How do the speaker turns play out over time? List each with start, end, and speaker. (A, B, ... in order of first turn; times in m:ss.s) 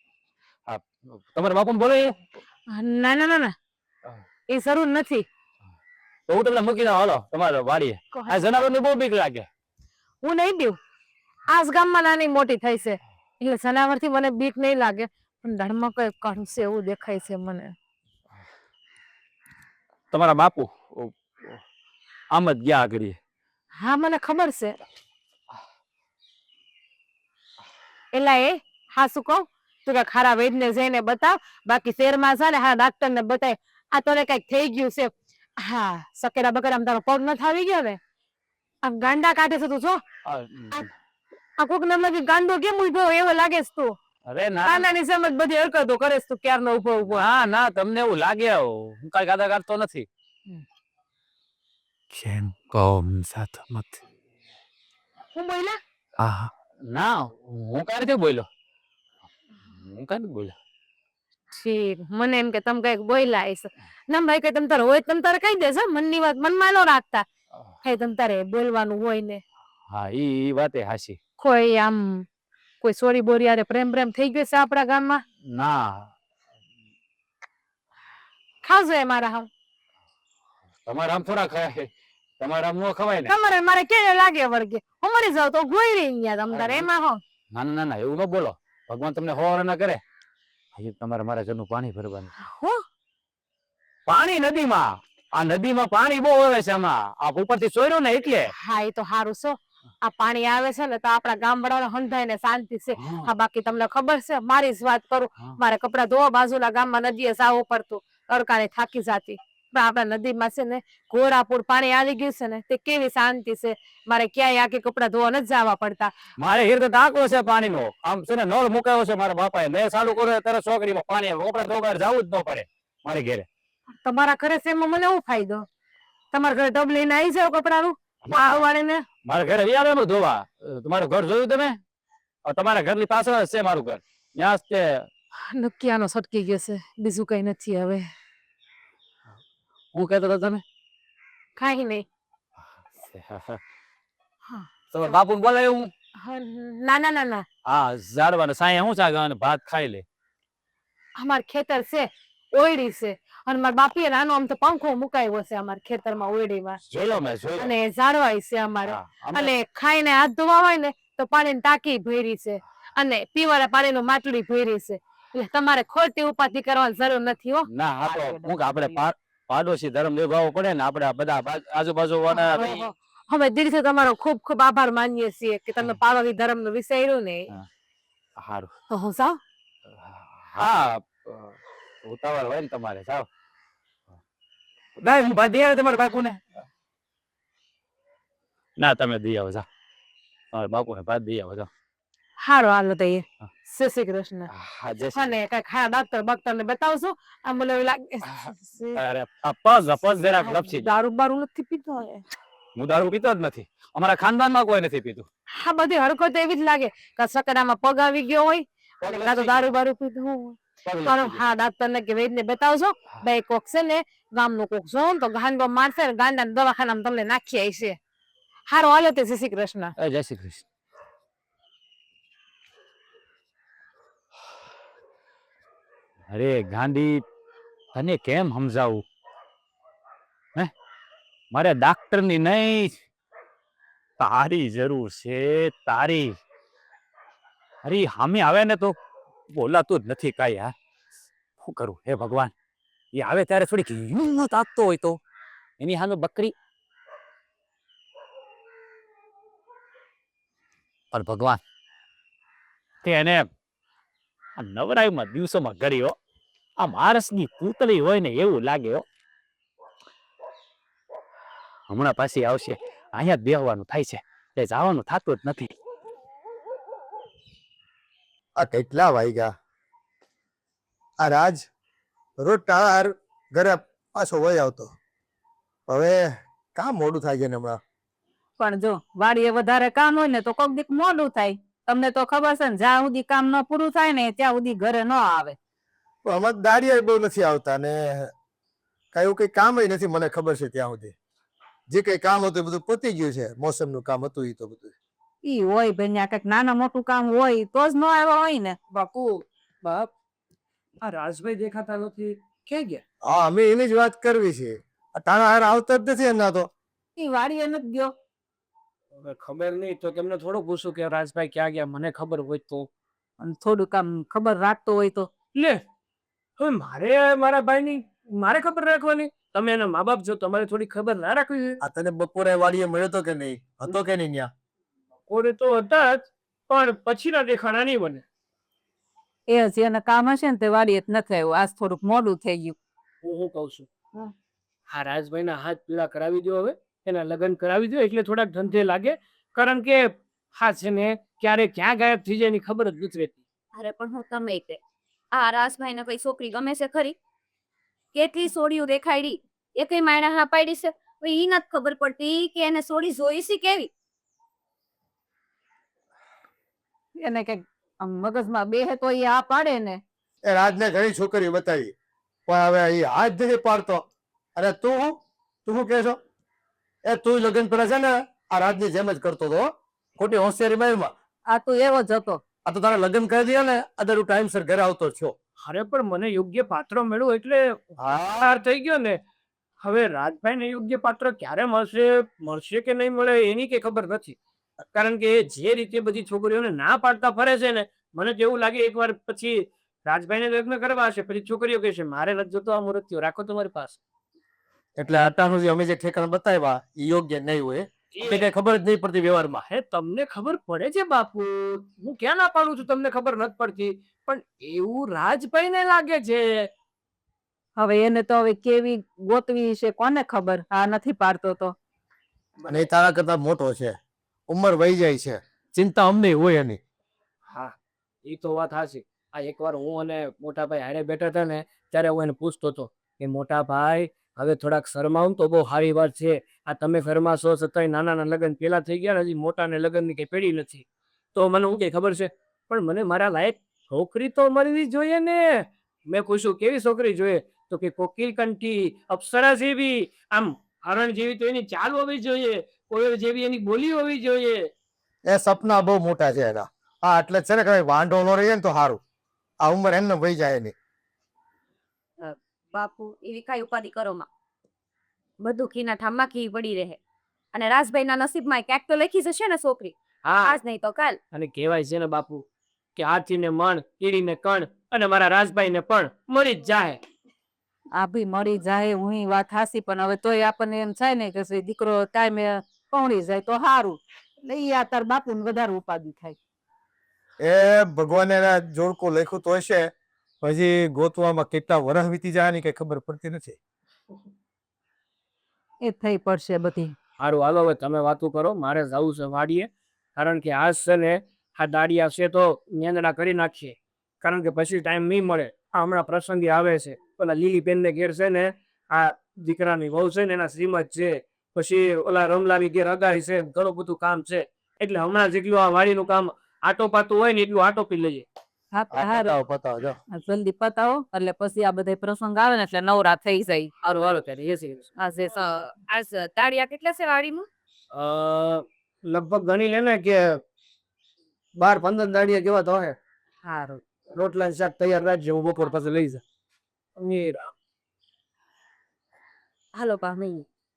0:00.7-0:02.1 A
0:02.8-0:03.5 B
0:04.5-0:05.2 B
0:06.3-0:09.5 A
0:08.1-0:08.4 B
0:10.2-0:10.8 B
0:11.5-0:17.7 B
0:20.1-0:21.6 A
0:22.3-0:23.2 A
0:23.8-0:24.8 B
0:28.1-0:38.0 B
0:38.8-0:40.0 B
0:40.2-0:40.9 A
0:41.6-0:44.0 B
0:44.3-0:44.9 A
0:44.6-0:47.3 B
0:47.1-0:50.1 A
0:52.1-0:54.0 C
0:55.3-0:55.8 B
0:56.2-0:56.5 C
0:56.9-0:58.5 A
0:59.7-1:00.6 A
1:01.5-1:07.3 B
1:07.8-1:09.4 B
1:09.9-1:11.2 A
1:11.4-1:12.2 B
1:12.8-1:15.2 B
1:15.5-1:16.1 A
1:18.6-1:19.5 B
1:20.9-1:21.9 A
1:22.4-1:23.3 A
1:23.3-1:27.2 B
1:26.5-1:26.9 A
1:27.5-1:30.0 A
1:30.8-1:32.3 A
1:32.4-1:32.8 B
1:34.1-1:38.5 A
1:38.6-1:56.1 B
1:43.0-1:43.3 A
1:56.4-2:03.5 A
2:04.0-2:05.6 B
2:06.3-2:09.0 B
2:08.3-2:08.5 A
2:09.3-2:11.8 A
2:12.4-2:15.1 A
2:15.5-2:18.0 B
2:19.9-2:20.6 A
2:21.6-2:22.0 B
2:23.0-2:23.6 A
2:24.9-2:25.9 A
2:26.2-2:27.5 B
2:27.7-2:30.0 A
2:31.2-2:36.8 B
2:36.9-2:37.7 A
2:37.6-2:47.7 B
2:38.8-2:39.5 A
2:47.7-2:52.8 A
2:52.3-2:57.5 B
2:58.4-2:58.7 A
2:58.9-2:59.4 B
3:00.0-3:03.3 A
3:05.0-3:06.4 A
3:08.8-3:09.7 A
3:10.5-3:11.7 A
3:12.4-3:14.5 B
3:14.5-3:15.3 A
3:15.1-3:19.0 B
3:18.2-3:20.9 A
3:20.4-3:22.2 B
3:22.8-3:25.3 A
3:25.6-3:38.0 B
3:29.0-3:29.7 A
3:30.8-3:31.4 A
3:38.7-3:39.9 B
3:40.0-3:40.6 A
3:46.3-3:47.2 A
3:47.9-3:49.0 A
3:51.5-3:52.9 A
3:54.2-3:56.4 A
3:57.8-3:59.0 A
3:59.5-4:00.7 A
4:01.6-4:02.5 A
4:03.1-4:05.2 A
4:05.8-4:06.5 A
4:11.1-4:11.6 A
4:13.0-4:13.5 A
4:14.6-4:16.2 A
4:16.8-4:19.0 A
4:21.9-4:25.7 A
4:28.6-4:29.5 D
4:31.2-4:31.6 D
4:32.4-4:34.9 D
4:35.9-4:37.8 D
4:38.6-4:45.6 E
4:46.2-4:48.3 D
4:49.1-4:51.2 D
4:51.9-4:54.9 D
4:55.4-4:58.8 E
4:58.9-5:00.1 F
5:01.0-5:03.0 F
5:03.3-5:06.7 D
5:07.2-5:08.1 E
5:09.2-5:12.9 F
5:13.4-5:15.3 E
5:15.6-5:15.8 F
5:16.6-5:21.8 F
5:21.8-5:24.5 D
5:25.3-5:28.2 F
5:29.5-5:32.8 E
5:33.2-5:33.9 F
5:34.9-5:43.4 F
5:43.8-5:44.8 G
5:45.3-5:47.2 G
5:48.1-5:53.9 G
5:57.2-6:00.0 E
6:00.4-6:01.9 D
6:02.5-6:04.0 D
6:04.6-6:05.1 D
6:05.6-6:06.2 D
6:07.0-6:09.7 D
6:10.2-6:11.1 D
6:11.5-6:12.4 E
6:12.7-6:15.3 D
6:15.6-6:17.8 F
6:18.0-6:18.5 D
6:18.3-6:19.2 F
6:19.8-6:24.4 F
6:24.9-6:34.0 F
6:35.0-6:39.6 D
6:38.2-6:38.5 F
6:39.7-6:46.7 F
6:47.8-6:51.8 E
6:52.7-6:54.0 D
6:54.5-6:56.8 D
6:57.5-7:24.7 F
7:25.3-7:29.0 D
7:29.6-7:30.7 D
7:32.2-7:34.3 G
7:35.4-7:37.0 G
7:37.5-7:41.2 G
7:40.2-7:40.6 F
7:41.3-7:42.4 F
7:43.0-7:47.0 F
7:48.0-7:56.4 E
7:57.4-7:59.9 D
8:00.4-8:03.6 D
8:05.8-8:06.9 E
8:07.2-8:28.2 F
8:28.7-8:29.4 E
8:28.9-8:30.0 D
8:30.1-8:33.7 E
8:33.8-8:34.9 F
8:35.0-8:35.7 E
8:35.8-8:37.5 G
8:37.9-8:40.4 F
8:41.6-8:42.7 F
8:42.2-8:42.9 D
8:44.1-8:46.2 F
8:47.0-8:47.5 F